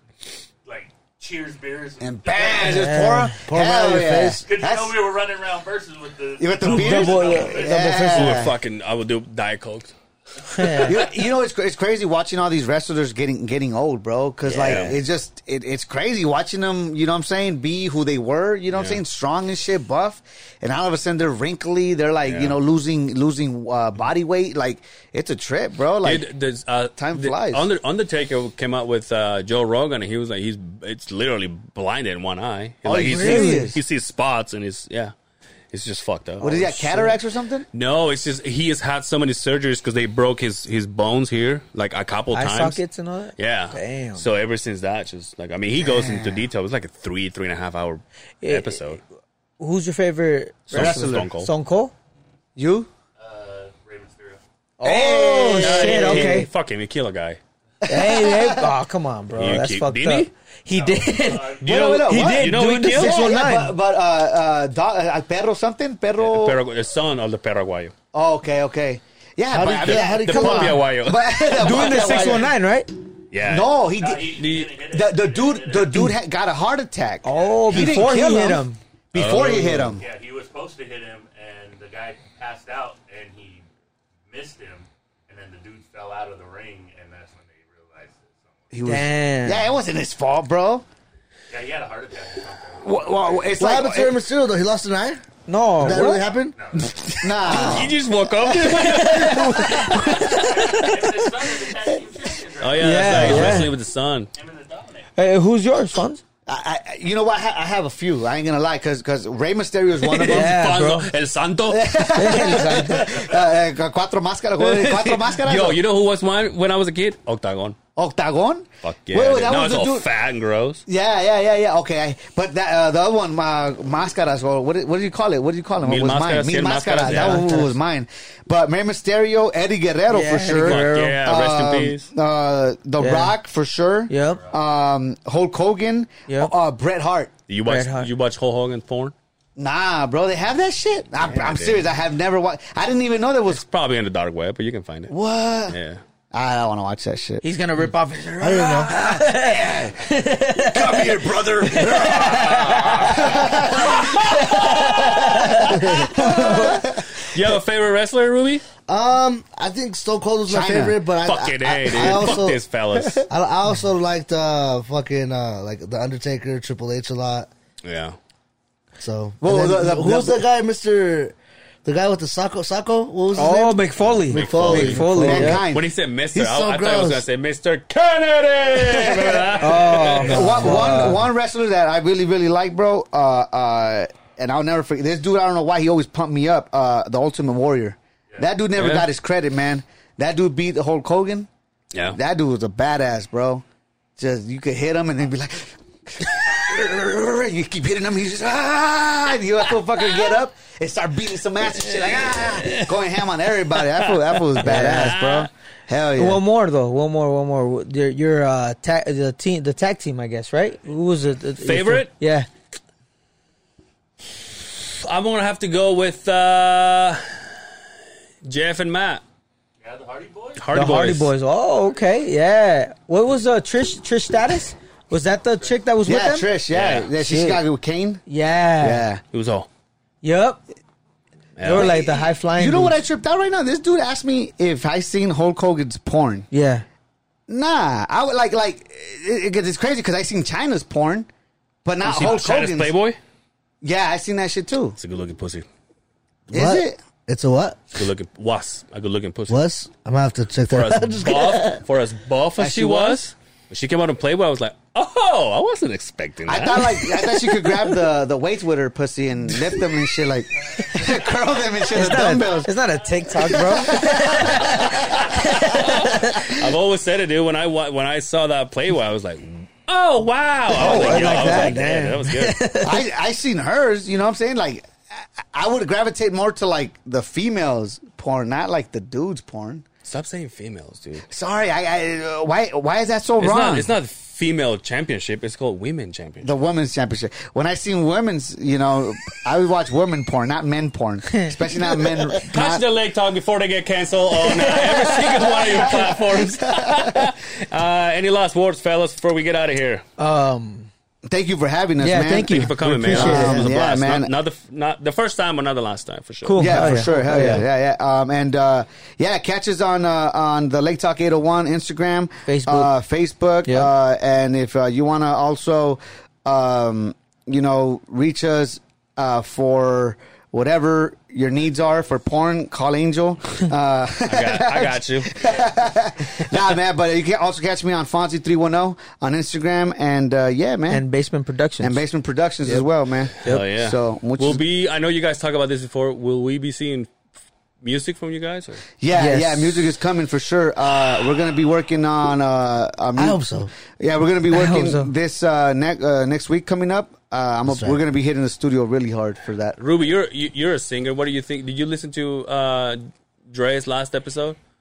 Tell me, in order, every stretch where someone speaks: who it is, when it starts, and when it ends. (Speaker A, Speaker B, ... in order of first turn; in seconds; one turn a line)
Speaker A: 0.6-3.1
Speaker B: 2.0-5.0
Speaker C: 2.5-3.4
Speaker D: 3.4-4.4
Speaker A: 4.4-8.0
Speaker B: 6.4-8.5
Speaker C: 6.6-8.5
Speaker E: 8.0-9.9
Speaker C: 10.5-11.0
Speaker B: 10.8-26.2
Speaker C: 14.4-15.0
Speaker E: 14.6-15.0
Speaker E: 18.7-19.0
Speaker E: 22.2-22.6
Speaker E: 26.0-35.1
Speaker B: 27.0-27.6
Speaker B: 32.9-33.8
Speaker C: 33.0-33.7
Speaker E: 35.7-36.6
Speaker B: 36.4-37.6
Speaker C: 36.4-37.2
Speaker E: 37.7-42.8
Speaker C: 42.3-44.3
Speaker E: 43.4-49.0
Speaker B: 45.8-46.5
Speaker C: 48.4-48.8
Speaker C: 49.6-51.9
Speaker E: 50.7-51.5
Speaker B: 50.7-51.3
Speaker B: 52.5-52.9
Speaker A: 53.2-54.4
Speaker C: 54.8-56.5
Speaker B: 54.8-56.5
Speaker E: 55.5-57.4
Speaker B: 57.8-58.7
Speaker C: 57.9-63.8
Speaker E: 59.3-60.3
Speaker A: 60.7-61.8
Speaker E: 61.6-63.2
Speaker B: 61.6-66.6
Speaker E: 66.2-67.9
Speaker B: 68.1-72.5
Speaker D: 69.5-70.9
Speaker E: 69.8-72.3
Speaker C: 70.3-70.8
Speaker C: 71.4-72.9
Speaker E: 73.3-73.7
Speaker B: 73.4-80.0
Speaker A: 73.9-76.0
Speaker E: 74.2-74.7
Speaker C: 77.2-78.8
Speaker A: 77.3-78.0
Speaker E: 79.1-80.0
Speaker A: 79.9-83.7
Speaker A: 84.3-88.8
Speaker B: 88.7-90.8
Speaker C: 88.8-89.7
Speaker A: 91.5-93.6
Speaker B: 92.8-94.2
Speaker D: 93.6-95.2
Speaker C: 95.5-96.2
Speaker D: 95.8-96.5
Speaker A: 96.5-96.9
Speaker E: 96.7-101.2
Speaker B: 97.2-97.9
Speaker C: 98.5-100.9
Speaker B: 99.2-100.1
Speaker A: 100.3-103.4
Speaker E: 102.6-104.3
Speaker C: 102.8-103.7
Speaker B: 103.1-103.6
Speaker A: 104.3-105.1
Speaker C: 105.2-106.2
Speaker B: 106.5-110.6
Speaker E: 110.0-113.3
Speaker C: 110.2-111.1
Speaker B: 111.7-115.8
Speaker C: 112.1-113.1
Speaker E: 114.6-117.8
Speaker B: 118.0-120.1
Speaker E: 118.8-120.8
Speaker B: 120.9-137.3
Speaker E: 125.8-127.5
Speaker C: 127.0-127.7
Speaker C: 130.1-131.2
Speaker E: 130.6-132.1
Speaker C: 133.0-133.3
Speaker C: 134.1-134.4
Speaker A: 134.2-134.6
Speaker C: 136.3-136.5
Speaker E: 137.5-139.1
Speaker C: 137.7-138.1
Speaker B: 139.6-143.6
Speaker E: 141.2-141.9
Speaker E: 143.5-145.1
Speaker B: 145.1-145.8
Speaker E: 145.7-146.0
Speaker B: 146.3-147.4
Speaker C: 147.4-153.2
Speaker D: 148.4-149.2
Speaker B: 149.2-149.9
Speaker B: 150.5-155.6
Speaker E: 151.2-155.5
Speaker C: 154.1-156.8
Speaker D: 155.7-156.7
Speaker B: 156.1-156.9
Speaker E: 156.7-158.7
Speaker D: 158.9-162.6
Speaker B: 160.5-161.0
Speaker E: 161.2-163.3
Speaker B: 162.0-162.3
Speaker D: 163.3-167.5
Speaker E: 167.8-168.2
Speaker D: 169.0-175.6
Speaker B: 169.4-170.4
Speaker C: 173.3-175.6
Speaker E: 173.9-181.0
Speaker B: 174.7-175.8
Speaker D: 176.3-177.2
Speaker B: 179.1-179.5
Speaker C: 179.6-181.2
Speaker B: 180.1-191.5
Speaker E: 188.8-189.1
Speaker B: 192.1-193.6
Speaker B: 194.2-206.4
Speaker E: 201.7-203.0
Speaker E: 203.7-205.5
Speaker C: 204.6-205.3
Speaker C: 206.1-212.5
Speaker A: 210.7-211.3
Speaker E: 211.6-212.1
Speaker E: 214.8-217.4
Speaker E: 218.4-219.2
Speaker A: 219.8-220.8
Speaker E: 220.6-221.3
Speaker C: 220.7-226.5
Speaker A: 225.5-225.9
Speaker B: 226.0-228.2
Speaker E: 226.7-227.1
Speaker C: 227.1-227.6
Speaker C: 228.3-229.1
Speaker B: 228.8-229.2
Speaker E: 229.3-229.7
Speaker C: 230.2-230.6
Speaker E: 231.6-232.0
Speaker C: 231.6-232.9
Speaker B: 231.7-236.5
Speaker C: 236.5-236.8
Speaker B: 237.5-241.3
Speaker B: 241.8-242.9
Speaker E: 242.0-243.2
Speaker B: 243.8-245.0
Speaker E: 245.0-245.7
Speaker D: 246.5-248.0
Speaker B: 246.5-247.0
Speaker E: 247.9-249.7
Speaker D: 249.5-251.8
Speaker E: 250.7-257.5
Speaker B: 252.6-253.2
Speaker B: 256.5-262.8
Speaker C: 261.9-266.5
Speaker A: 263.1-263.3
Speaker B: 263.4-266.5
Speaker E: 264.4-272.6
Speaker C: 270.7-273.1
Speaker B: 270.7-271.9
Speaker B: 272.8-279.8
Speaker E: 280.0-281.2
Speaker B: 281.3-283.9
Speaker E: 283.4-286.5
Speaker B: 286.4-292.8
Speaker C: 291.3-292.3
Speaker E: 292.5-300.0
Speaker C: 294.4-296.1
Speaker B: 295.7-297.2
Speaker C: 300.2-300.9
Speaker B: 301.3-304.3
Speaker C: 302.0-303.7
Speaker E: 302.5-307.6
Speaker D: 303.4-303.6
Speaker C: 306.4-307.6
Speaker B: 306.6-331.0
Speaker C: 312.4-312.9
Speaker C: 313.6-313.9
Speaker E: 324.3-325.6
Speaker C: 330.9-332.0
Speaker B: 331.8-334.6
Speaker C: 333.4-333.7
Speaker E: 333.4-337.1
Speaker E: 337.8-338.8
Speaker B: 339.0-343.4
Speaker C: 339.1-339.9
Speaker D: 343.1-343.7
Speaker B: 344.0-349.8
Speaker C: 344.5-345.1
Speaker D: 347.6-348.0
Speaker E: 349.8-354.6